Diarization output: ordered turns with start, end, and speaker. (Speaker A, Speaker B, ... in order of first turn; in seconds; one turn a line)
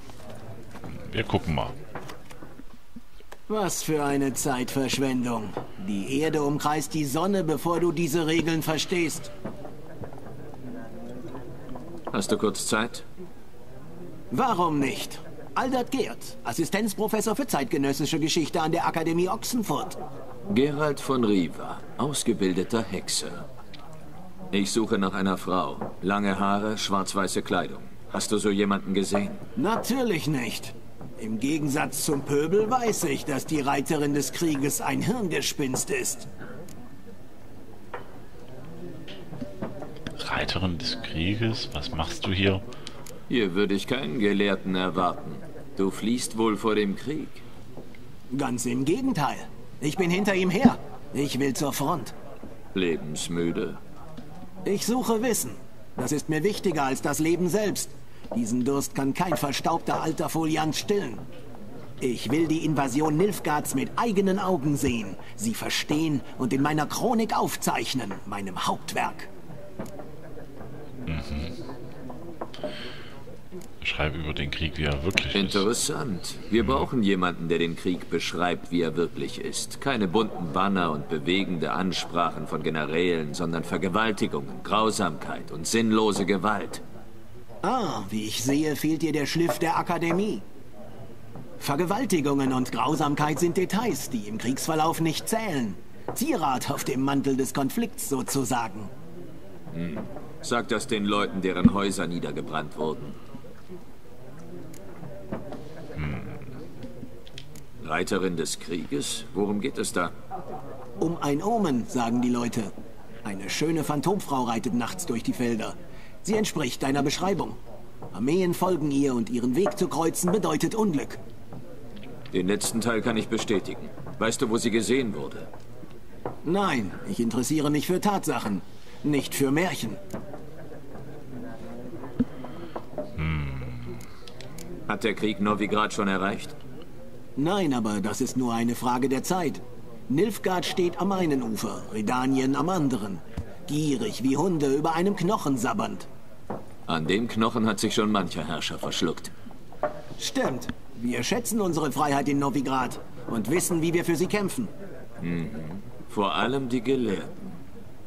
Speaker A: 0.9-1.7
Speaker B: 3.5-9.3
Speaker C: 12.1-13.0
Speaker B: 14.3-20.0
Speaker C: 20.5-23.4
Speaker C: 24.5-29.4
Speaker B: 29.6-36.3
Speaker A: 40.2-42.6
Speaker C: 43.3-47.4
Speaker B: 48.3-52.1
Speaker C: 52.7-53.8
Speaker B: 54.6-61.2
Speaker B: 62.0-69.3
Speaker A: 71.1-71.6
Speaker A: 73.8-75.7
Speaker C: 75.3-86.8
Speaker A: 76.6-76.8
Speaker B: 87.6-90.4
Speaker B: 91.6-98.9
Speaker C: 99.7-103.2
Speaker A: 106.0-106.4
Speaker C: 107.8-110.1
Speaker B: 111.0-112.7
Speaker B: 113.2-117.6
Speaker B: 118.1-121.2
Speaker C: 122.3-125.5
Speaker B: 126.4-130.0
Speaker A: 133.2-134.0
Speaker C: 134.9-136.5
Speaker B: 137.3-146.1
Speaker C: 146.9-149.3
Speaker B: 150.2-154.7
Speaker C: 155.2-157.6